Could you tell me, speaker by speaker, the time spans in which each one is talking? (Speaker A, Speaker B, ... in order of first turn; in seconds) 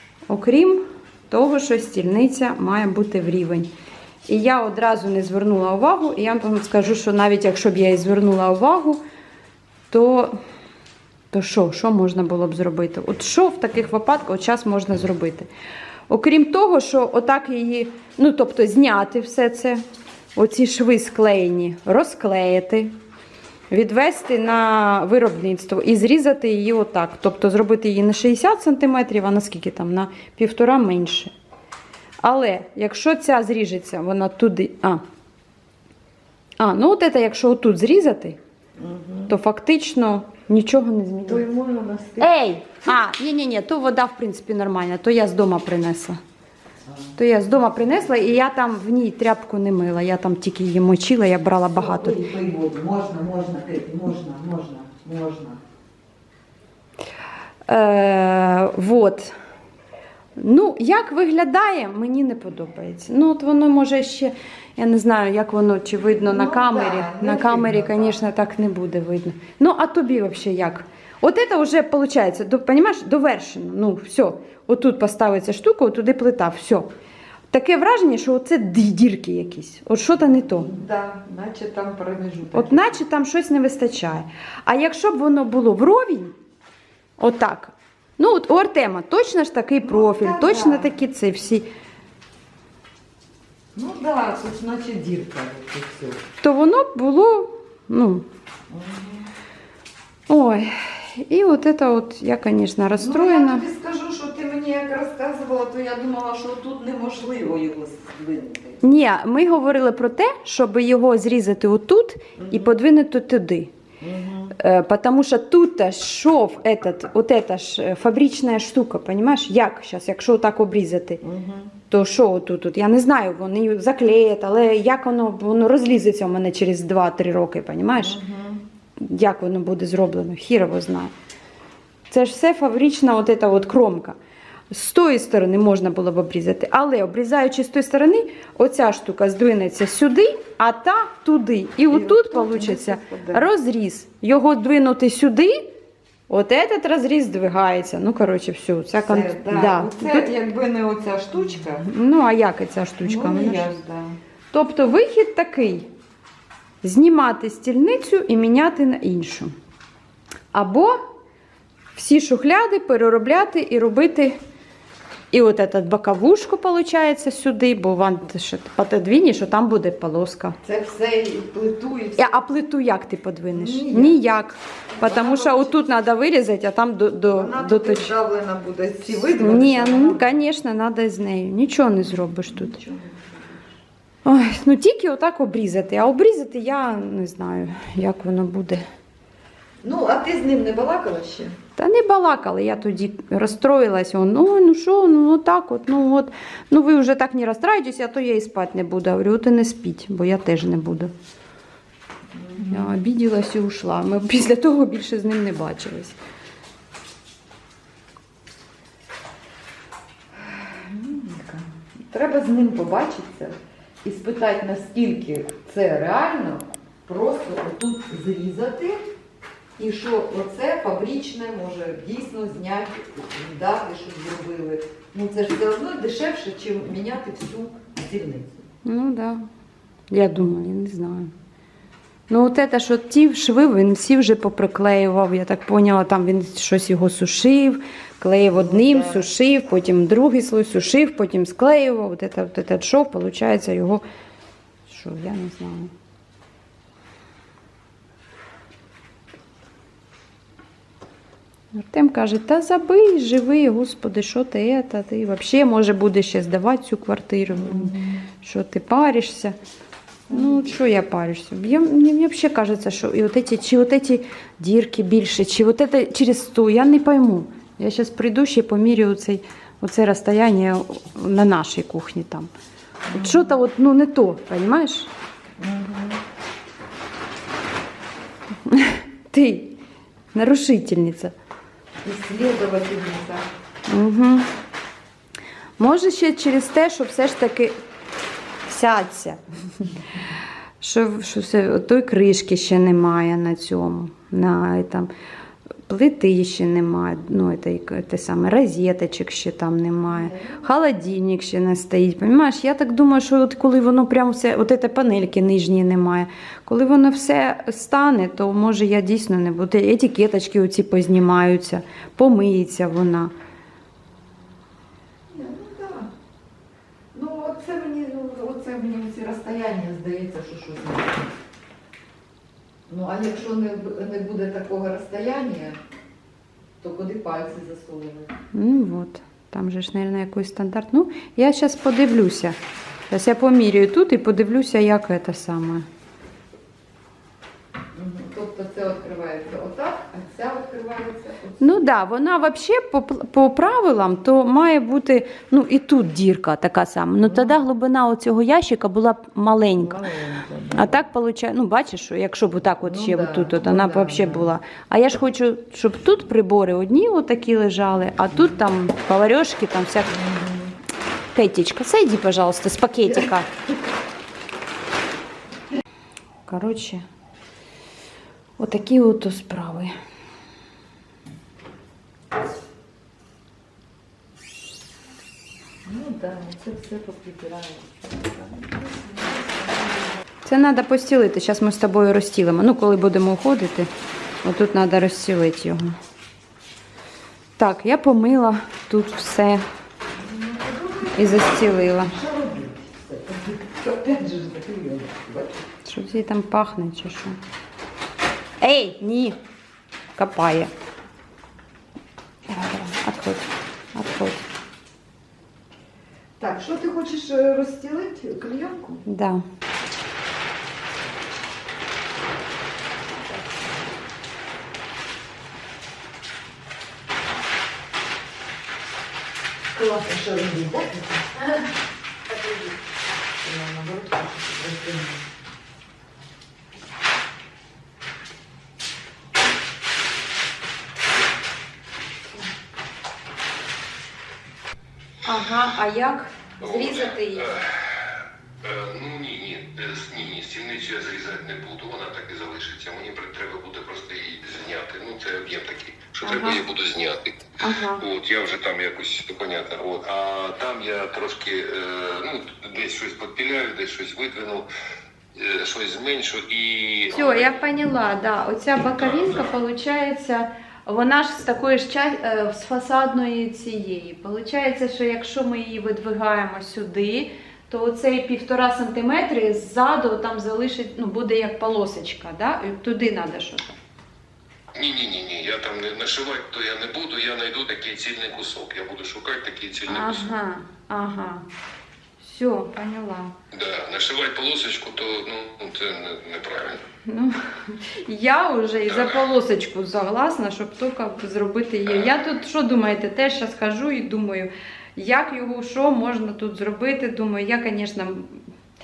Speaker A: 0.3-3.7, 4.3-9.0, 9.9-10.4, 11.3-15.5, 16.1-19.8, 20.3-22.9, 23.7-31.3, 32.2-35.0, 36.6-38.4, 39.3-41.4, 42.2-46.2, 47.2-52.2, 57.7-59.3, 60.4-76.9, 77.5-80.7, 82.5-86.3, 87.2-91.7, 96.4-98.2, 100.3-103.7, 108.8-113.7, 114.5-121.2, 121.9-128.2, 129.0-131.1, 132.1-134.2, 134.7-145.7, 146.3-150.3, 151.8-153.7, 154.5-155.9, 156.8-159.5, 160.5-161.0, 161.9-164.3, 165.3-170.6, 172.2-178.1, 179.0-182.8, 184.2-188.8, 191.8-201.1, 202.7-206.2, 228.8-229.4, 230.1-231.3, 232.3-244.0, 244.9-245.9, 251.7-259.6, 260.3-272.5, 273.1-275.1, 278.6-279.8, 280.3-281.3, 283.9-284.5, 285.8-287.8, 288.7-289.8, 290.8-295.1, 295.9-313.3, 328.5-332.6, 333.1-335.8, 341.6-350.0, 350.7-360.1, 361.3-363.5, 366.5-367.0, 368.6-369.9, 380.4-383.9, 384.4-385.9, 387.6-389.6, 391.2-392.1, 395.8-397.4, 398.6-399.4, 400.1-400.7, 402.5-404.4, 409.0-409.4, 435.2-437.5, 446.2-446.6, 447.6-448.0, 457.1-473.8, 479.9-481.4, 482.2-483.3, 487.0-498.4
Speaker B: 38.8-39.3, 41.2-42.3, 46.9-48.1, 51.7-55.6, 66.0-68.2, 80.5-83.0, 89.8-90.9, 93.7-96.2, 98.7-99.3, 103.0-108.8, 112.4-112.7, 114.0-114.5, 121.2-121.7, 128.0-128.6, 141.9-143.5, 149.0-151.8, 153.0-154.2, 170.6-172.5, 173.5-174.2, 175.0-175.8, 177.3-180.4, 182.5-183.6, 189.8-191.6, 202.3-202.9, 210.6-219.1, 219.8-228.6, 238.6-239.3, 257.8-258.1, 273.1-273.5, 275.6-276.2, 282.0-283.5, 300.1-300.6, 315.3-316.1, 317.1-321.3, 322.9-325.8, 326.8-328.3, 337.9-341.8, 347.2-347.6, 349.8-350.9, 352.8-354.5, 360.1-360.8, 375.8-380.2, 390.1-391.5, 392.0-395.6, 406.4-409.0, 413.3-413.8, 419.7-421.7, 422.3-422.7, 423.4-425.2
Speaker C: 436.6-454.7, 455.3-457.6, 458.9-459.5, 474.8-480.3, 483.5-486.8, 488.9-489.2, 491.9-492.1